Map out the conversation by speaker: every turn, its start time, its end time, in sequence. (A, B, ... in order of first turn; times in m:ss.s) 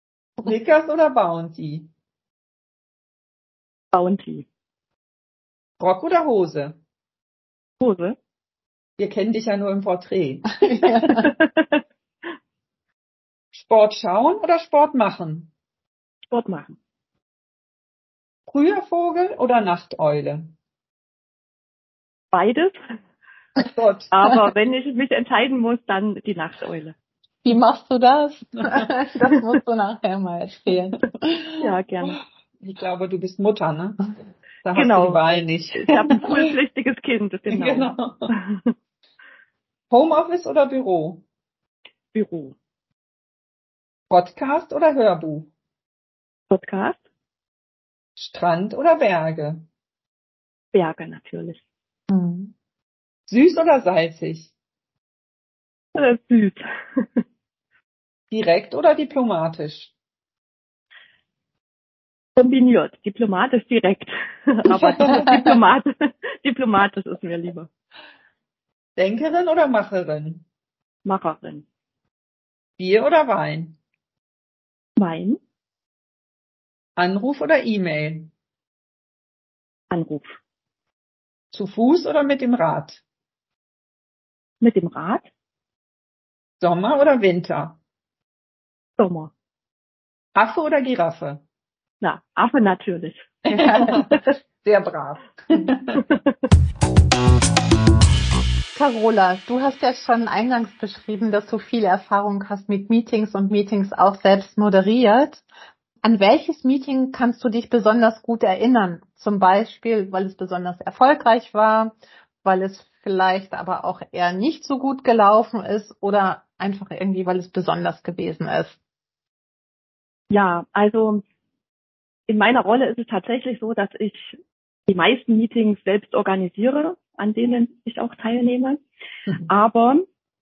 0:00.4-0:01.9 A
0:03.9-0:04.4 B
0:05.8-0:06.8 A
0:07.8-0:08.2 B
0:09.0-0:11.3 A
0:10.8-0:11.2 C
0:13.5-0:15.5 A
0:16.3-0:16.8 B
0:18.5-0:20.5 A
0:22.3-0:22.7 B
0:23.6-0:24.1 A
0:24.1-0:26.9 B
0:27.4-0:31.7 C
0:31.6-0:32.2 B
0:32.6-0:36.2 A
0:34.7-0:38.7 B
0:37.5-0:38.3 A
0:39.9-0:41.2 A
0:42.1-0:42.5 B
0:44.1-0:45.5 A
0:46.5-0:47.0 B
0:48.2-0:49.6 A
0:50.7-0:51.6 B
0:52.1-0:52.5 C
0:53.3-0:54.5 A
0:55.9-0:57.0 B
0:58.3-0:59.9 A
1:02.4-1:07.7 B
1:04.7-1:05.5 A
1:09.0-1:10.4 A
1:11.0-1:11.6 B
1:12.8-1:13.8 A
1:15.0-1:15.4 B
1:17.0-1:18.3 A
1:19.9-1:20.3 B
1:21.5-1:23.0 A
1:24.6-1:25.3 B
1:26.6-1:27.8 A
1:29.0-1:29.3 B
1:30.3-1:31.4 A
1:32.0-1:34.0 B
1:33.5-1:36.0 A
1:33.5-1:34.0 C
1:38.7-1:45.4 C
1:46.0-1:58.8 C
2:00.3-2:01.2 B
2:02.3-2:04.4 B
2:04.9-2:08.8 B
2:09.5-2:10.0 B